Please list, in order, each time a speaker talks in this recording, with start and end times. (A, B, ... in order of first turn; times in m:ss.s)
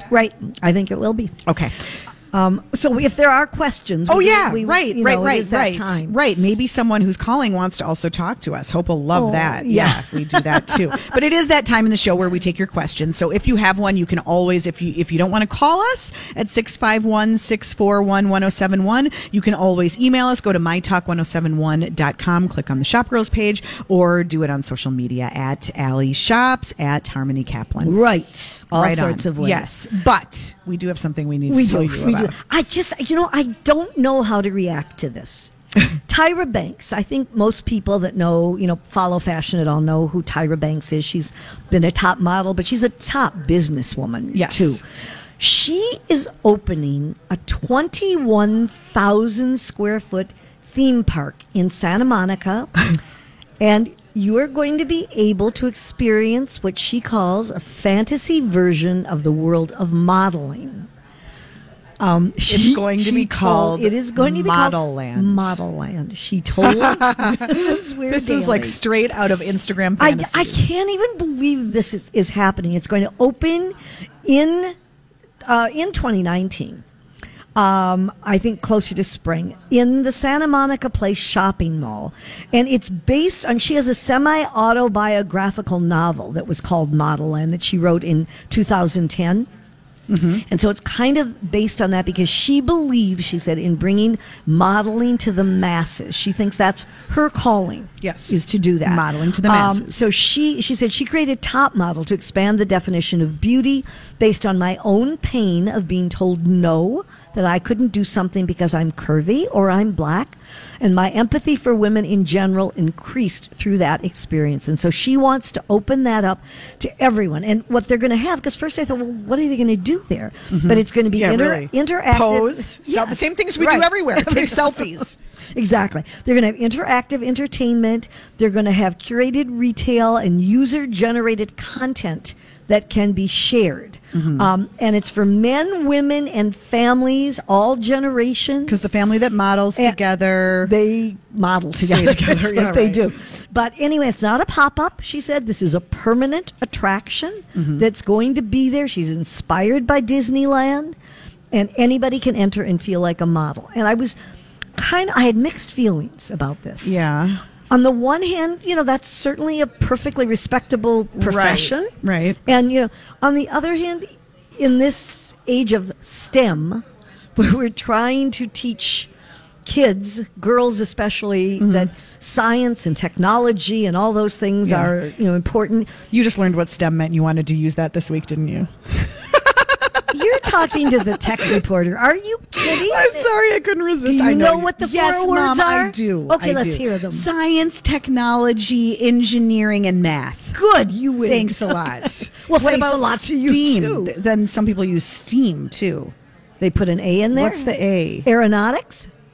0:00.1-0:01.4 A
0:01.5-0:01.8 B
0:02.3-0:06.2 A
0:04.1-0:28.0 B
0:09.1-0:10.8 A
0:27.8-0:29.7 A
0:28.7-0:32.4 B
0:31.5-0:35.5 A
0:36.0-0:44.8 A
0:44.3-0:44.8 B
0:45.4-0:52.9 A
0:53.6-1:00.9 A
1:02.0-1:08.8 A
1:02.5-1:05.6 B
1:06.6-1:10.7 B
1:10.0-1:14.7 A
1:15.4-1:16.8 A
1:17.6-1:29.5 A
1:30.1-1:30.4 B
1:30.5-2:04.9 A
1:38.0-1:39.9 B
2:00.5-2:05.2 B
2:05.5-2:18.8 A
2:14.1-2:14.5 B
2:18.7-2:20.7 B
2:20.6-2:31.0 A
2:21.8-2:23.1 B
2:27.6-2:27.8 B
2:31.5-2:34.2 A
2:34.8-2:37.1 A
2:36.8-2:37.4 B
2:37.7-2:41.9 A
2:41.2-2:42.4 B
2:42.4-2:46.8 A
2:47.4-2:49.1 A
2:49.6-2:55.9 A
2:51.6-2:51.9 B
2:54.6-2:55.0 B
2:56.1-3:01.6 B
3:00.1-3:03.2 A
3:02.6-3:10.6 B
3:04.0-3:07.3 A
3:10.5-3:14.1 A
3:11.2-3:16.1 B
3:16.6-3:19.1 A
3:17.3-3:18.2 B